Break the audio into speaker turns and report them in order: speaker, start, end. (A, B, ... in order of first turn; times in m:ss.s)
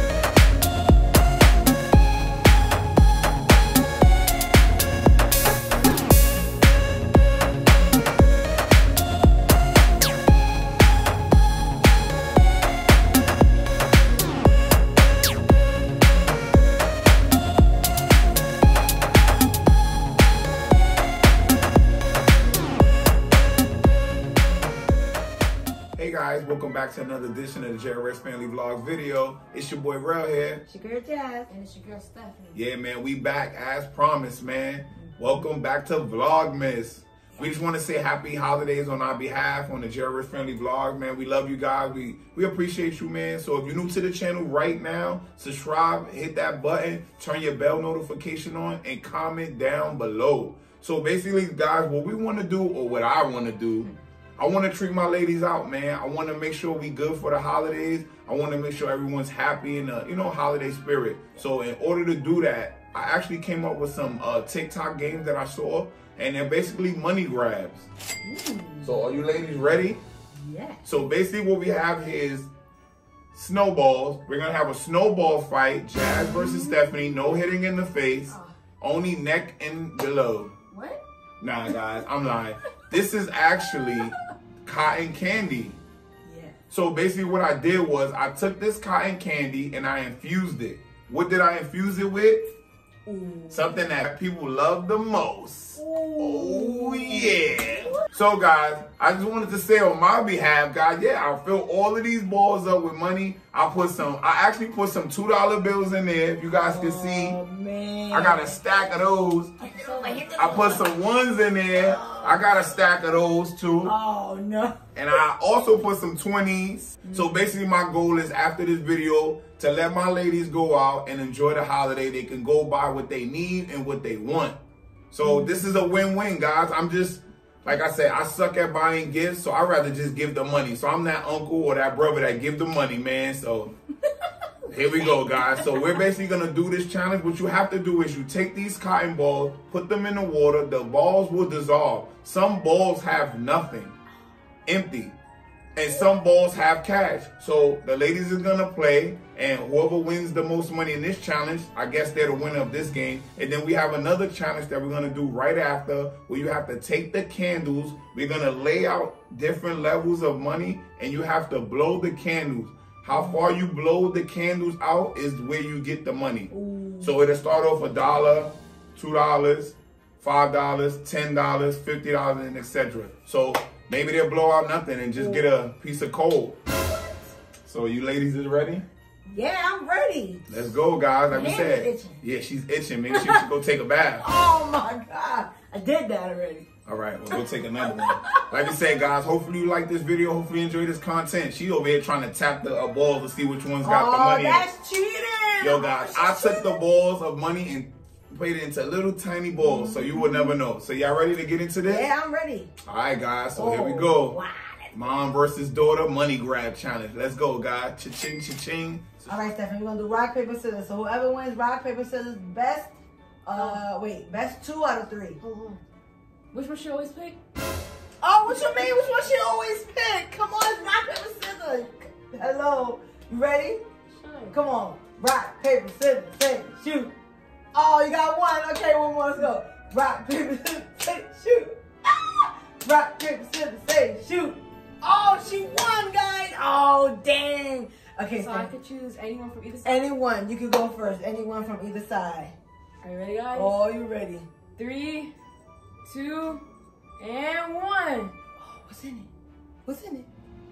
0:26.0-0:30.6 A
0:30.7-0:31.5 B
0:31.5-0:32.6 C
0:32.5-1:07.9 A
1:08.2-1:09.0 B
1:08.8-1:10.0 A
1:10.4-1:10.8 B
1:10.8-1:12.5 A
1:13.3-1:20.5 A
1:16.4-1:16.8 B
1:18.3-1:18.5 C
1:21.4-1:24.1 A
1:24.6-1:25.8 A
1:26.2-1:26.6 B
1:26.7-1:32.5 A
1:33.1-1:33.7 B
1:33.5-1:47.4 A
1:35.8-1:38.1 B
1:46.6-1:48.6 B
1:48.1-1:49.5 A
1:49.6-1:50.9 B
1:49.8-1:50.7 C
1:50.4-1:53.9 A
1:51.7-1:52.8 B
1:53.8-1:54.8 B
1:55.0-2:04.6 A
1:57.0-1:57.3 B
2:05.1-2:13.8 A
2:14.7-2:24.0 A
2:15.1-2:15.8 C
2:24.7-2:25.2 A
2:25.8-2:56.6 A
2:43.1-2:43.6 B
2:46.5-2:47.2 B
2:55.2-2:55.5 B
2:56.9-2:57.2 B
2:57.6-2:58.8 A
2:59.3-3:00.5 B
3:00.5-3:04.2 A
3:01.3-3:02.2 B
3:03.1-3:03.4 C
3:04.2-3:06.7 B
3:06.9-3:14.7 A
3:13.8-3:16.8 B
3:15.6-3:22.1 A
3:19.6-3:20.6 B
3:21.8-3:22.7 B
3:22.8-3:24.4 A
3:23.6-3:25.0 B
3:24.9-3:29.3 A
3:29.3-3:35.4 B
3:33.6-3:33.8 C
3:35.4-3:35.8 C
3:36.5-3:37.4 C
3:38.2-3:43.8 B
3:44.1-3:44.6 C
3:44.5-3:47.1 B
3:47.7-3:58.7 B
3:58.4-4:00.0 C
3:59.8-4:02.6 B
4:03.0-4:03.8 C
4:03.5-4:04.5 B
4:04.8-4:05.3 C
4:06.0-4:06.6 C
4:07.2-4:08.3 C
4:08.6-4:09.3 B
4:09.9-4:10.3 B